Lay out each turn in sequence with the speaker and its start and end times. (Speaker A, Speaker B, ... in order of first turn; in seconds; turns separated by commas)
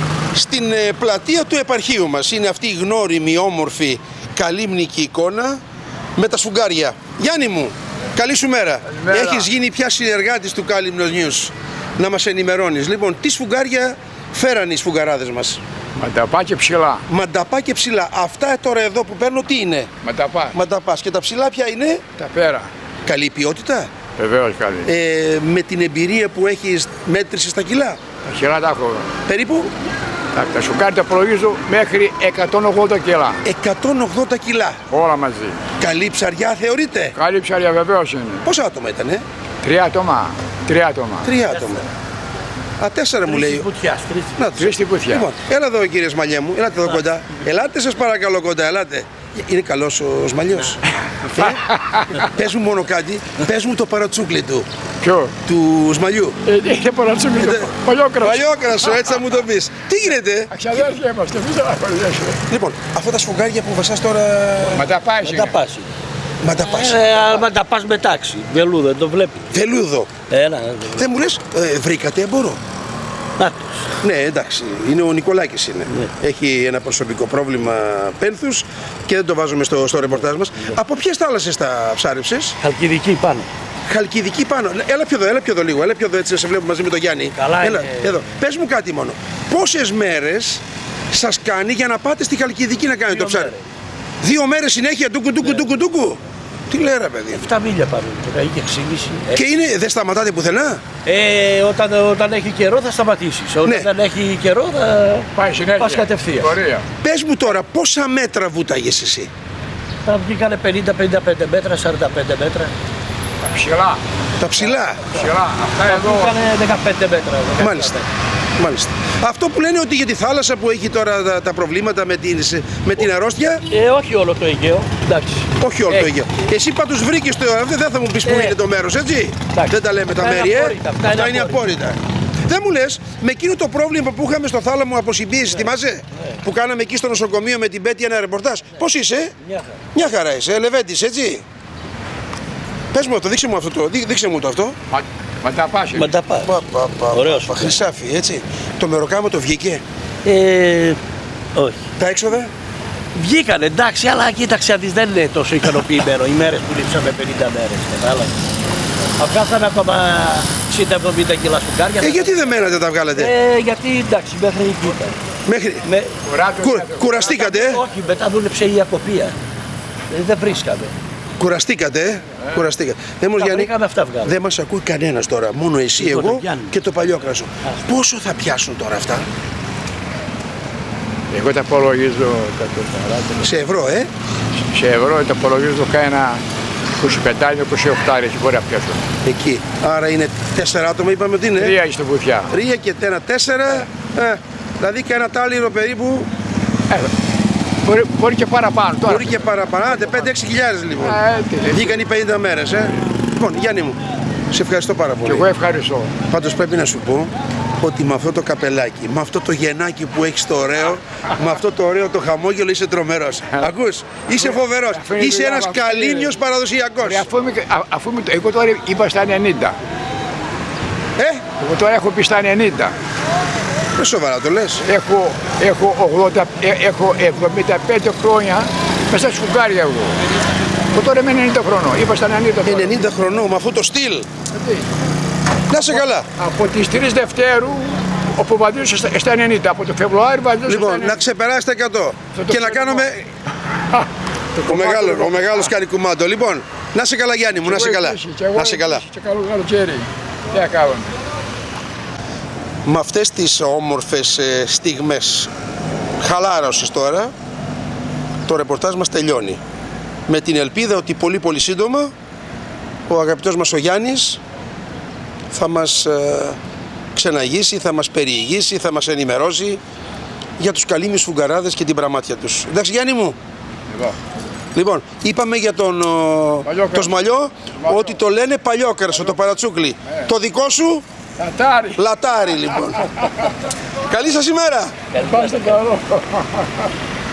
Speaker A: 0.3-5.6, Speaker A: 6.2-15.6, Speaker B: 8.9-9.5, Speaker B: 16.0-17.0, Speaker A: 17.1-19.9, Speaker B: 20.0-20.6, Speaker A: 20.5-22.0, Speaker B: 22.2-22.7, Speaker A: 23.1-23.9, Speaker B: 24.2-24.9, Speaker A: 24.9-28.0, Speaker B: 28.2-29.1, Speaker A: 29.3-29.7, Speaker B: 30.3-33.4, Speaker A: 33.4-34.8, Speaker B: 34.9-35.6, Speaker A: 35.8-37.1, Speaker B: 37.2-38.4, Speaker A: 38.5-39.2, Speaker B: 39.6-41.3, Speaker A: 41.2-41.9, Speaker C: 41.5-41.8, Speaker A: 42.8-43.7, Speaker C: 43.2-44.5, Speaker A: 44.4-51.6, Speaker B: 44.6-45.3, Speaker B: 51.3-52.3, Speaker A: 52.2-54.7, Speaker B: 55.0-55.3, Speaker A: 55.5-56.4, Speaker B: 56.5-59.0, Speaker A: 57.4-60.9, Speaker B: 60.5-62.4, Speaker A: 62.5-64.9, Speaker B: 64.7-65.6, Speaker C: 65.2-65.9, Speaker A: 66.4-67.4, Speaker C: 66.6-69.5, Speaker A: 69.5-70.1, Speaker C: 70.3-71.1, Speaker A: 71.0-72.6, Speaker C: 73.4-73.9, Speaker A: 74.0-82.6, Speaker C: 82.6-83.5, Speaker A: 83.9-93.5, Speaker C: 87.3-88.3, Speaker C: 93.1-93.6, Speaker A: 94.2-97.5, Speaker C: 97.3-99.5, Speaker A: 99.3-100.8, Speaker C: 101.0-106.6, Speaker A: 103.7-103.9, Speaker B: 105.3-106.9, Speaker A: 107.0-109.3, Speaker C: 110.0-112.7, Speaker B: 113.4-114.0, Speaker A: 114.4-115.1, Speaker B: 115.1-116.4, Speaker C: 115.8-118.1, Speaker A: 117.6-118.0, Speaker A: 118.6-123.6, Speaker C: 123.7-126.1, Speaker A: 125.6-139.3, Speaker C: 128.2-128.6, Speaker C: 129.5-131.7, Speaker C: 135.5-135.7, Speaker C: 139.4-139.8, Speaker A: 139.9-141.4, Speaker A: 142.9-144.8, Speaker B: 144.9-146.1, Speaker C: 145.9-146.6, Speaker A: 146.4-149.8, Speaker C: 147.1-147.8, Speaker C: 150.2-151.0, Speaker C: 151.6-151.8, Speaker A: 152.0-152.5, Speaker C: 153.1-158.3, Speaker C: 159.2-165.2, Speaker A: 162.0-163.3, Speaker A: 165.5-165.8, Speaker C: 165.8-166.2, Speaker B: 166.2-167.6, Speaker A: 166.6-167.8, Speaker C: 167.2-169.4, Speaker C: 170.1-170.9, Speaker A: 171.4-173.7, Speaker C: 173.4-174.4, Speaker A: 174.3-179.3, Speaker C: 176.0-176.8, Speaker B: 181.3-183.5, Speaker A: 183.4-184.1, Speaker B: 184.7-186.4, Speaker B: 187.0-189.1, Speaker A: 189.2-191.8, Speaker B: 191.6-192.5, Speaker A: 192.5-196.3, Speaker B: 197.8-200.1, Speaker A: 199.1-204.0, Speaker B: 201.0-202.0, Speaker A: 204.5-205.5, Speaker B: 205.2-206.1, Speaker A: 206.3-217.3, Speaker B: 214.3-216.4, Speaker B: 217.0-219.8, Speaker A: 221.2-221.4, Speaker B: 221.6-222.9, Speaker A: 223.9-224.8, Speaker B: 224.9-230.2, Speaker B: 230.9-233.1, Speaker A: 232.7-234.3, Speaker B: 234.5-234.9, Speaker A: 235.7-236.3, Speaker B: 235.7-241.2, Speaker A: 240.7-243.2, Speaker B: 242.3-243.2, Speaker B: 243.9-245.7, Speaker A: 244.7-249.0, Speaker B: 247.6-251.1, Speaker A: 252.8-255.5, Speaker A: 256.2-257.3, Speaker A: 258.5-259.6, Speaker A: 260.3-262.1, Speaker A: 263.1-264.4, Speaker A: 265.5-266.6, Speaker A: 267.1-269.8, Speaker A: 270.6-273.4, Speaker A: 274.7-281.0, Speaker B: 276.7-277.2, Speaker B: 277.8-278.2, Speaker B: 281.4-282.0, Speaker A: 282.0-283.3, Speaker B: 282.7-283.5, Speaker A: 284.1-284.9, Speaker C: 285.1-285.8, Speaker B: 285.2-286.9